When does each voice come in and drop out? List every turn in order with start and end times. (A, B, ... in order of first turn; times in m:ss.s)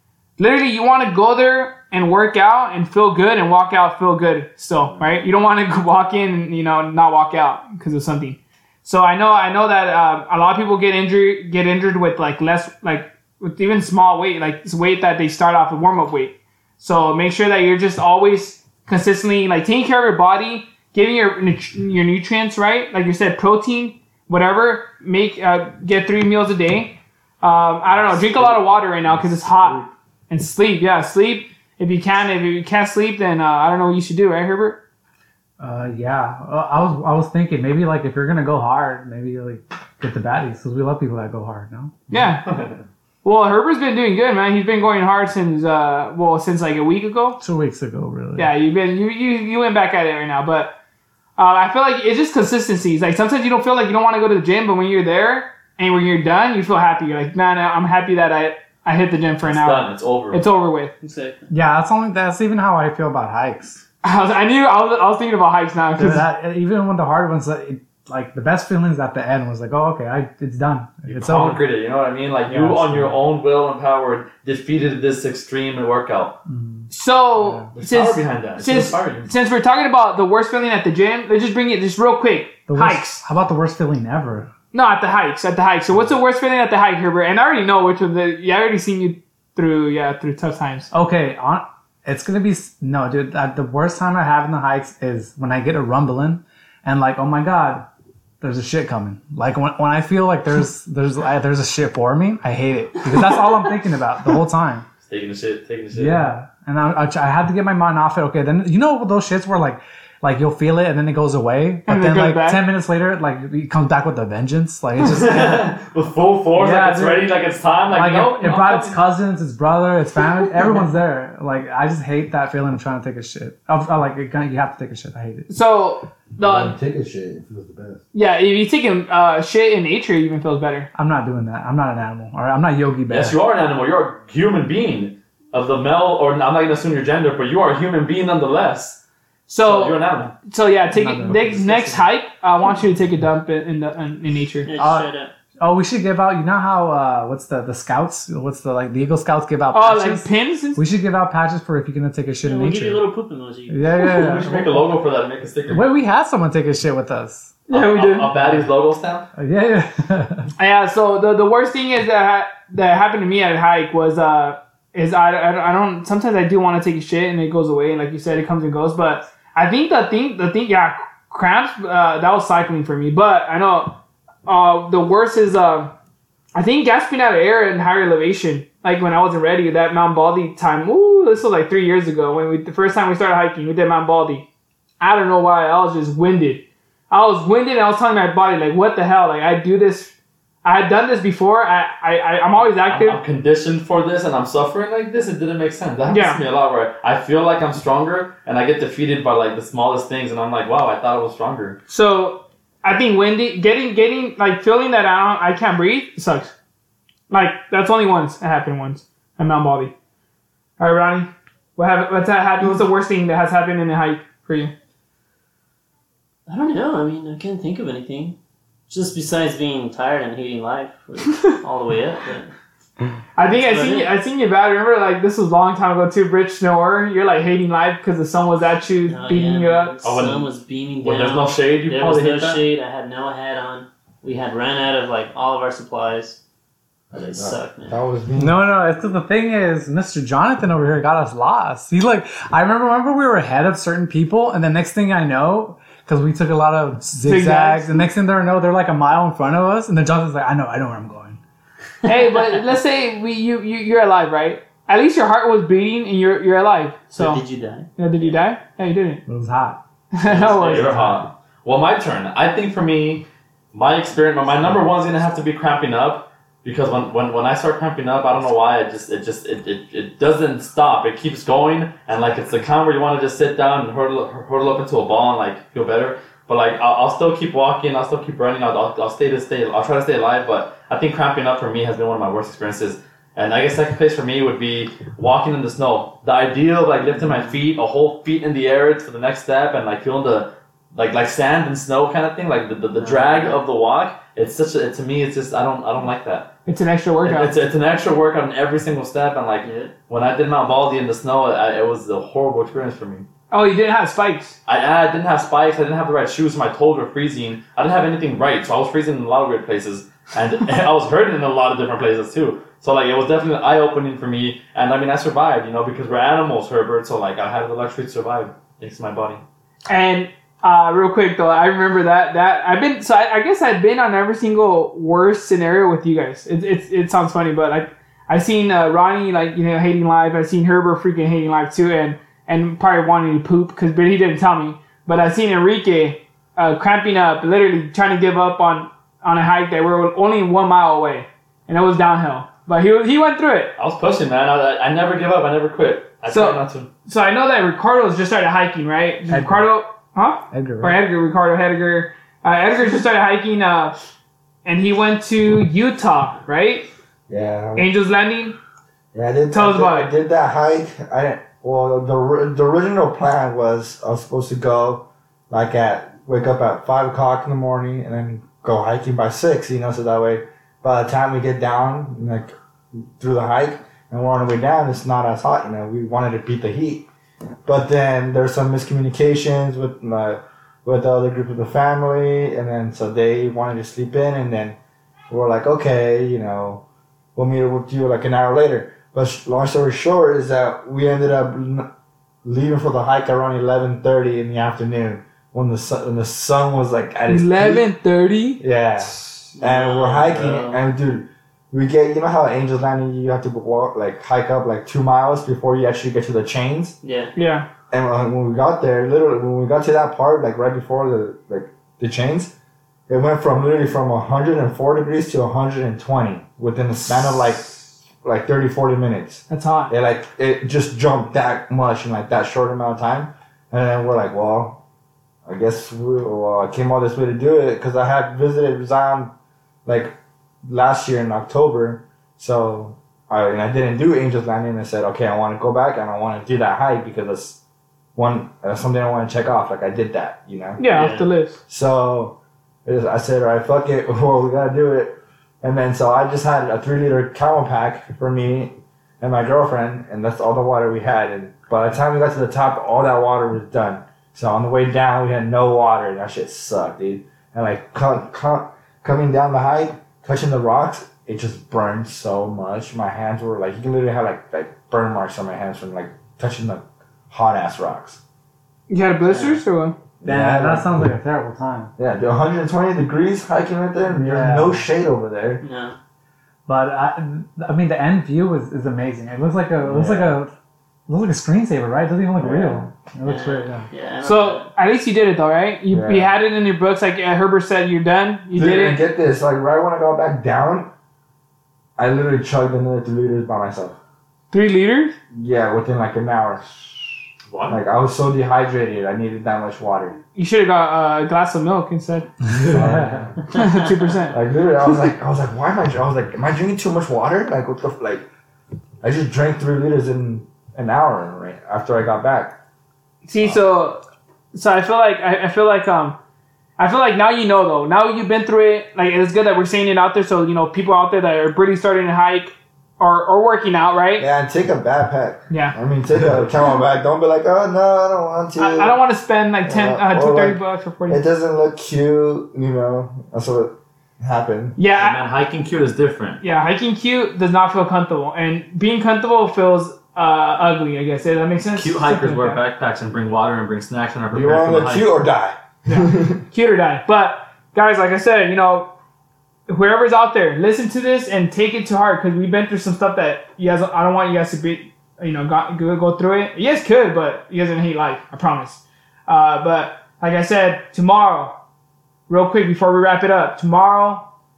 0:00.4-0:34.8 A
0:04.8-0:05.2 B
0:28.4-0:29.9 B
0:35.6-0:42.0 C
0:42.1-0:42.5 A
0:42.1-0:42.8 D
0:43.2-0:47.4 A
0:47.4-0:48.5 C
0:48.4-0:50.7 A
0:51.4-1:00.9 A
0:59.4-1:00.4 D
1:01.0-1:01.5 E
1:01.5-1:03.8 C
1:04.0-1:06.3 A
1:06.0-1:11.6 C
1:11.1-1:16.4 D
1:12.5-1:13.2 C
1:16.5-1:17.7 C
1:16.9-1:23.2 A
1:17.7-1:19.3 D
1:22.7-1:24.5 C
1:24.7-1:30.9 A
1:30.9-1:37.9 C
1:38.4-1:44.9 C
1:45.0-1:46.3 D
1:45.9-1:55.7 C
1:51.9-1:52.6 A
1:55.0-1:59.0 D
1:56.6-1:57.3 C
1:57.9-2:05.5 C
2:05.5-2:06.7 A
2:06.4-2:08.0 B
2:08.1-2:10.9 A
2:11.0-2:13.4 C
2:13.1-2:19.0 D
2:19.5-2:24.7 A
2:19.6-2:20.3 D
2:20.9-2:22.1 C
2:24.6-2:25.3 E
2:24.8-2:33.0 C
2:29.7-2:30.8 A
2:32.4-2:34.5 E
2:33.7-2:34.8 C
2:34.1-2:35.9 D
2:35.7-2:37.6 C
2:37.7-2:38.3 A
2:37.7-2:39.3 D
2:38.4-2:38.7 C
2:39.4-2:40.5 C
2:40.6-2:55.9 A
2:56.5-3:04.5 A
3:05.0-3:10.1 A
3:10.6-3:13.2 A
3:12.8-3:21.8 D
3:16.1-3:16.4 A
3:21.9-3:26.5 A
3:27.3-3:29.9 A
3:30.8-3:34.7 A
3:36.5-3:38.4 E
3:38.9-3:42.5 E
3:43.4-3:50.0 A
3:43.5-3:44.1 E
3:49.1-3:56.4 E
3:50.0-3:50.5 D
3:51.0-3:52.6 D
3:57.1-3:58.6 B
3:57.1-3:58.0 E
3:58.4-4:11.4 C
4:07.2-4:08.0 A
4:12.0-4:12.3 E
4:12.0-4:17.4 A
4:17.1-4:18.4 E
4:18.0-4:19.2 A
4:19.3-4:19.8 C
4:20.1-4:21.1 A
4:20.2-4:56.5 D
4:20.8-4:21.2 C
4:53.0-4:53.6 E
4:56.7-4:57.5 A
4:57.2-5:03.3 D
4:59.6-4:59.9 E
5:03.5-5:04.6 A
5:04.7-5:19.4 D
5:19.9-5:43.7 A
5:43.8-5:46.9 D
5:46.3-5:54.0 A
5:49.3-5:49.7 C
5:50.5-5:51.0 C
5:54.6-5:56.9 A
5:57.3-5:57.9 B
5:57.8-5:58.6 A
5:59.1-6:12.6 B
5:59.5-6:00.1 A
6:13.2-6:17.1 B
6:17.7-6:24.8 B
6:25.3-6:26.8 B
6:27.4-6:31.9 B
6:32.4-6:37.9 B
6:37.3-6:38.6 A
6:38.6-6:47.0 B
6:39.5-6:40.8 E
6:47.0-6:47.4 E
6:47.4-6:47.7 A
6:47.9-6:52.5 B
6:53.1-7:04.8 B
6:59.5-6:59.9 A
7:05.5-7:09.3 B
7:09.9-7:17.6 B
7:18.2-7:20.8 B
7:20.8-7:21.6 A
7:20.9-7:21.3 E
7:21.7-7:48.2 B
7:48.9-7:50.0 A
7:49.2-7:49.6 E
7:50.2-7:51.0 B
7:50.2-7:51.9 C
7:52.0-7:55.6 B
7:54.1-7:54.9 C
7:55.6-7:56.0 E
7:56.7-8:00.5 C
7:59.8-8:00.4 B
8:01.1-8:03.9 C
8:02.4-8:02.9 B
8:03.2-8:04.7 E
8:04.2-8:09.0 A
8:05.9-8:06.3 B
8:08.5-8:10.9 B
8:12.0-8:14.0 B
8:14.5-8:15.2 A
8:15.3-8:16.6 B
8:17.5-8:17.8 D
8:17.7-8:20.2 B
8:20.4-8:22.3 A
8:22.6-8:23.3 C
8:22.6-8:23.4 B
8:23.5-8:24.4 A
8:24.3-8:28.2 B
8:29.0-8:32.6 B
8:33.3-8:34.0 A
8:34.5-8:36.2 A
8:36.8-8:44.3 A
8:44.2-8:49.0 B
8:45.5-8:45.8 A
8:48.6-8:51.2 A
8:49.6-8:54.8 B
8:54.8-8:55.2 A
8:54.9-8:56.4 D
8:56.4-9:02.6 A
9:01.7-9:05.1 D
9:04.3-9:06.4 B
9:05.9-9:08.9 A
9:09.7-9:21.6 A
9:22.3-9:24.3 A